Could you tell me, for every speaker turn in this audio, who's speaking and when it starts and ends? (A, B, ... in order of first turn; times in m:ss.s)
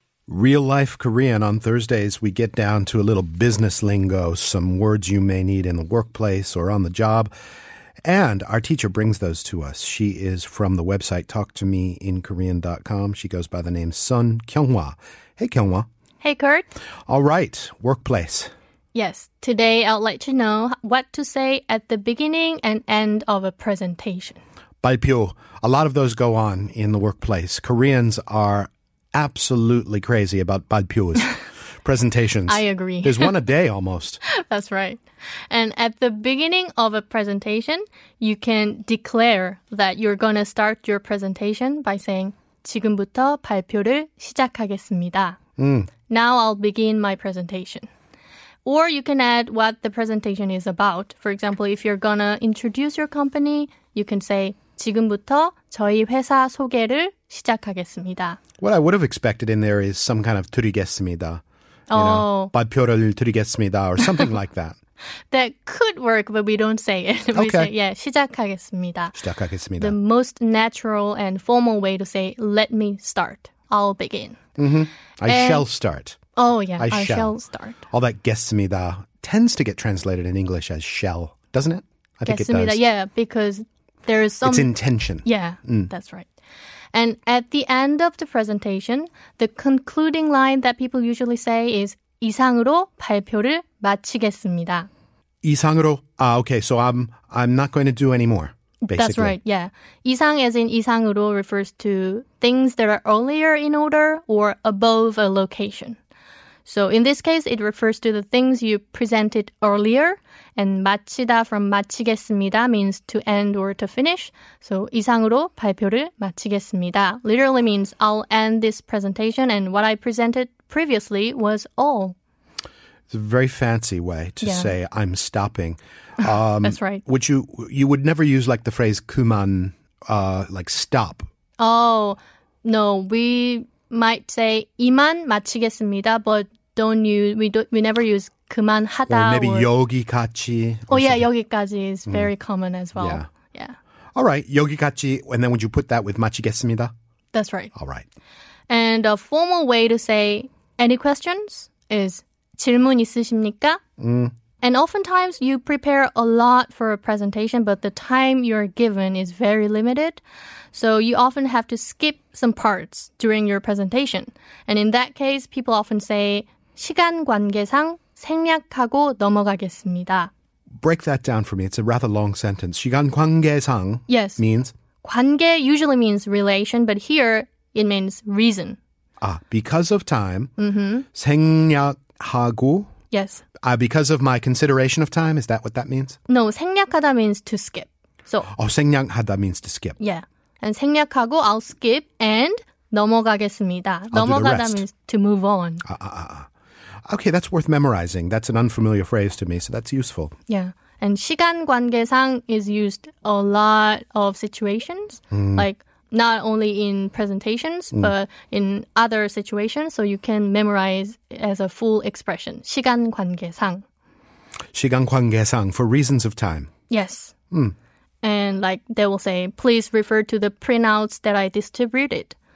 0:00.3-0:07.3 A
0:08.0-0:15.9 A
0:16.2-0:16.7 B
0:17.1-0:18.5 A
0:18.9-0:24.4 B
0:24.8-0:34.2 A
0:32.5-0:33.3 B
0:34.2-0:45.4 B
0:45.6-0:45.9 A
0:46.1-0:47.9 B
0:48.6-0:58.4 B
0:58.6-1:04.8 A
1:01.9-1:02.5 B
1:05.3-1:09.2 B
1:07.3-1:07.7 A
1:09.2-1:09.9 A
1:09.8-1:14.4 B
1:14.6-1:16.2 A
1:15.2-1:15.6 B
1:16.4-1:17.8 B
1:16.8-1:17.3 A
1:17.9-1:22.8 A
1:22.2-1:26.3 B
1:24.4-1:25.9 A
1:26.9-1:34.9 B
1:35.4-1:39.4 A
1:38.8-1:46.0 B
1:46.6-2:02.1 B
2:03.1-2:11.3 A
2:04.4-2:04.7 B
2:06.6-2:07.0 B
2:11.6-2:19.7 B
2:19.1-2:21.3 A
2:20.9-2:23.8 B
2:23.0-2:23.3 A
2:24.2-2:26.9 A
2:27.3-2:27.7 B
2:27.8-2:28.1 A
2:28.7-2:33.8 B
2:34.0-2:34.3 A
2:34.6-2:40.2 B
2:40.7-2:50.3 B
2:50.8-2:54.7 A
2:54.1-2:54.4 B
2:55.0-2:58.8 B
2:59.2-3:00.5 A
3:00.6-3:01.1 B
3:01.1-3:02.9 A
3:03.1-3:03.4 B
3:03.6-3:06.2 A
3:06.3-3:08.5 B
3:08.6-3:10.0 A
3:10.0-3:15.8 B
3:14.1-3:14.8 A
3:15.8-3:16.5 A
3:17.1-3:20.3 A
3:20.5-3:33.8 B
3:25.3-3:25.6 A
3:34.7-3:36.7 A
3:36.9-3:37.3 B
3:38.2-3:42.4 B